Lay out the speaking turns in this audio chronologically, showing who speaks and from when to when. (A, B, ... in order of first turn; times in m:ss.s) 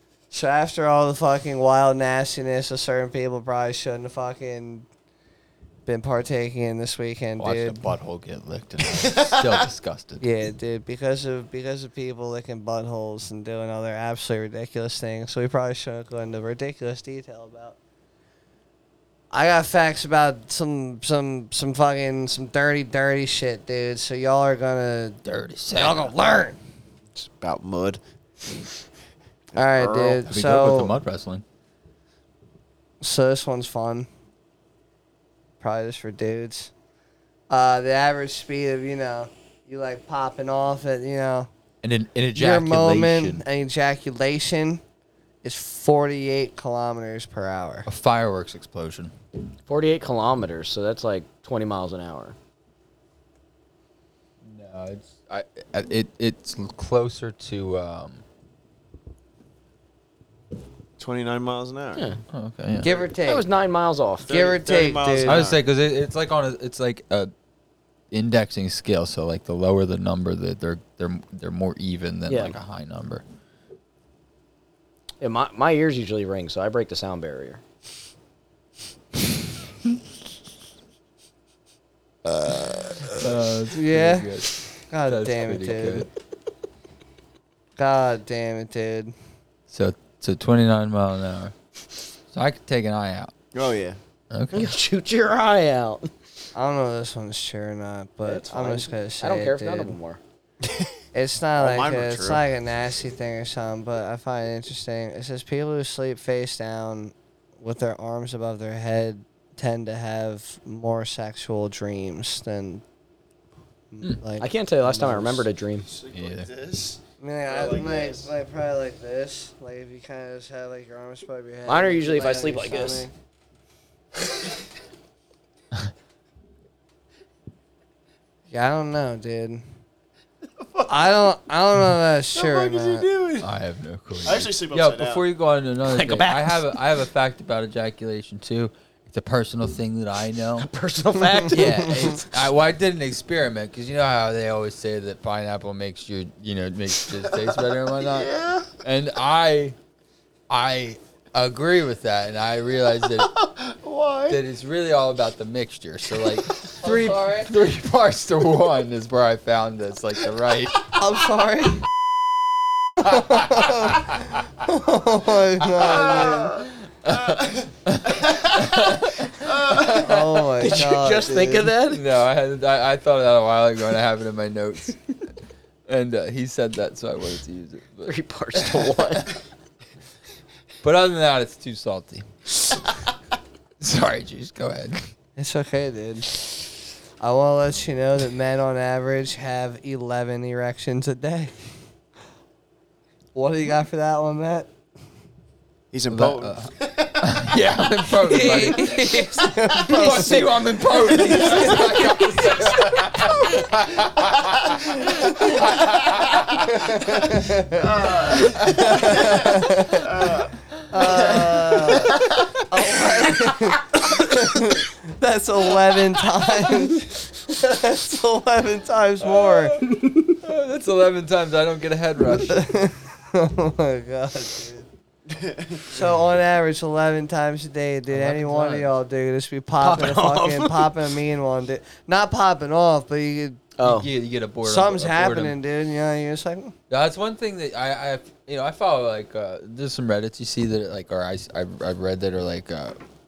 0:00.3-0:04.9 A
0:05.8-0:07.9 A
0:07.4-0:10.2 B
0:08.8-0:09.7 C
0:10.2-0:17.8 A
0:19.3-0:25.2 A
0:25.2-0:26.1 B
0:25.7-0:26.6 A
0:27.2-0:28.0 C
0:29.5-0:30.9 A
0:29.6-0:30.2 C
0:30.2-0:31.4 B
0:33.0-0:34.1 A
0:35.6-0:36.7 A
0:37.5-0:41.5 A
0:41.8-0:43.4 B
0:42.3-0:44.8 A
0:45.4-0:47.9 A
0:47.8-0:49.1 B
0:49.7-0:52.3 D
0:54.4-0:58.2 B
1:01.0-1:02.1 C
1:02.0-1:02.2 D
1:02.3-1:03.0 B
1:02.8-1:03.4 A
1:03.2-1:04.3 D
1:04.2-1:05.6 C
1:04.3-1:05.5 A
1:05.2-1:07.3 B
1:08.1-1:13.2 B
1:12.3-1:12.6 D
1:15.2-1:17.6 D
1:22.4-1:26.1 A
1:23.1-1:26.1 B
1:27.8-1:29.1 A
1:29.7-1:31.5 B
1:32.3-1:33.3 B
1:33.5-1:34.0 C
1:34.3-1:34.7 B
1:34.5-1:36.1 D
1:36.5-1:39.9 A
1:38.2-1:40.2 D
1:40.6-1:40.9 C
1:41.1-1:52.8 A
1:41.6-1:42.5 C
1:53.9-1:55.5 A
1:54.4-1:55.9 D
1:55.8-1:58.3 C
1:56.1-1:56.5 B
1:57.2-2:03.1 A
2:01.7-2:03.1 D
2:08.5-2:09.6 A
2:10.6-2:11.3 C
2:10.9-2:13.1 A
2:12.3-2:13.5 C
2:13.4-2:20.7 B
2:14.2-2:15.2 C
2:15.8-2:16.8 D
2:20.6-2:22.2 D
2:21.5-2:29.8 B
2:21.6-2:22.2 A
2:27.9-2:28.7 C
2:30.5-2:33.3 B
2:33.2-2:34.4 C
2:34.3-2:40.9 B
2:36.8-2:37.5 A
2:40.9-2:41.8 A
2:43.0-2:44.1 B
2:43.1-2:46.6 A
2:45.8-2:50.4 B
2:45.8-2:47.7 C
2:48.2-2:50.0 C
2:49.8-2:51.7 A
2:50.6-2:52.0 D
2:51.8-2:55.1 B
2:55.9-2:59.4 B
2:58.0-2:59.4 D
3:00.8-3:02.2 B
3:03.8-3:05.0 B
3:05.4-3:06.4 A
3:07.2-3:11.6 A
3:13.3-3:14.7 A
3:15.9-3:17.6 C
3:16.1-3:26.6 B
3:18.3-3:22.2 A
3:18.3-3:21.4 D
3:26.6-3:30.2 A
3:27.9-3:32.4 C
3:27.9-3:29.1 B
3:30.9-3:39.9 A
3:39.2-3:42.7 B
3:42.5-3:44.9 A
3:45.3-3:45.9 C
3:45.9-3:53.6 A
3:48.1-3:49.0 B
3:49.8-3:50.9 D
3:53.8-3:54.1 D
3:53.8-3:55.6 B
3:54.6-3:56.7 A
3:56.9-4:03.0 B